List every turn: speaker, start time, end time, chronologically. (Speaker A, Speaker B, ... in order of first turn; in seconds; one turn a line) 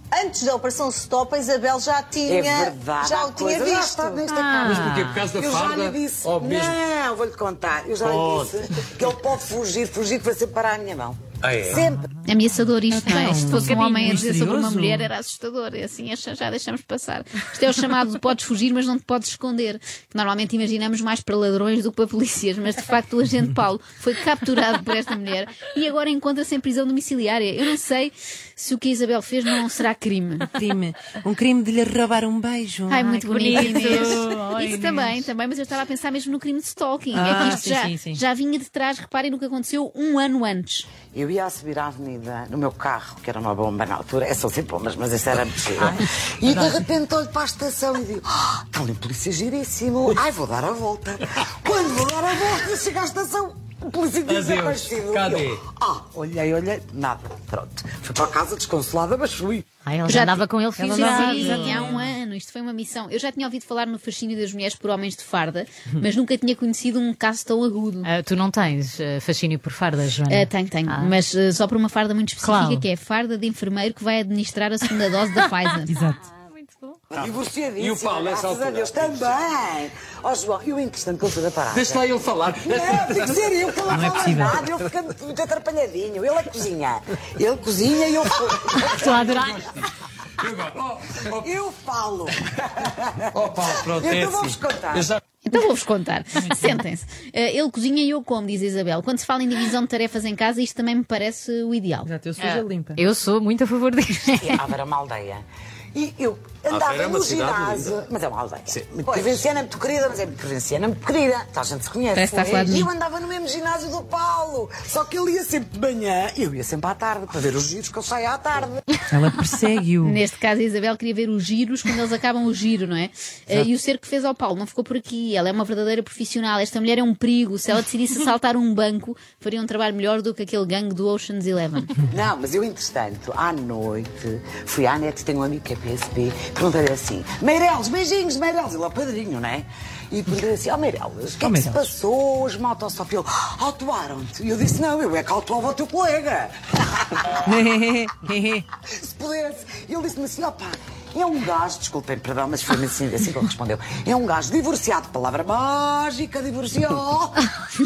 Speaker A: 0.1-4.2
Speaker B: 2.2-12.0
Speaker C: 4.3-5.3
Speaker D: 4.6-6.8
Speaker D: 8.0-8.5
Speaker D: 11.4-11.8
Speaker E: 12.2-30.5
Speaker F: 12.9-15.1
Speaker C: 13.1-14.3
Speaker F: 30.6-33.9
Speaker E: 32.9-40.9
Speaker C: 33.0-35.3
Speaker F: 37.1-38.2
Speaker B: 41.1-59.6
Speaker C: 45.8-46.8
Speaker D: 54.3-55.6
Speaker C: 59.9-61.9
Speaker E: 60.1-68.1
Speaker F: 60.8-62.1
Speaker C: 68.0-71.1
Speaker E: 70.3-76.0
Speaker C: 72.4-72.8
Speaker C: 75.9-77.0
Speaker F: 75.9-76.2
Speaker D: 77.1-79.4
Speaker B: 77.1-82.0
Speaker D: 81.7-83.9
Speaker B: 82.6-89.4
Speaker F: 83.8-84.6
Speaker C: 88.8-89.6
Speaker D: 88.9-89.9
Speaker D: 90.4-91.5
Speaker B: 91.4-95.1
Speaker D: 93.3-95.2
Speaker E: 95.4-102.1
Speaker F: 102.0-103.0
Speaker C: 102.4-104.6
Speaker B: 104.4-118.8
Speaker D: 106.7-108.0
Speaker A: 109.0-109.5
Speaker E: 112.1-112.9
Speaker F: 119.1-120.2
Speaker E: 120.0-132.0
Speaker B: 132.1-147.3
Speaker F: 141.4-141.9
Speaker F: 147.4-148.7
Speaker B: 148.8-157.5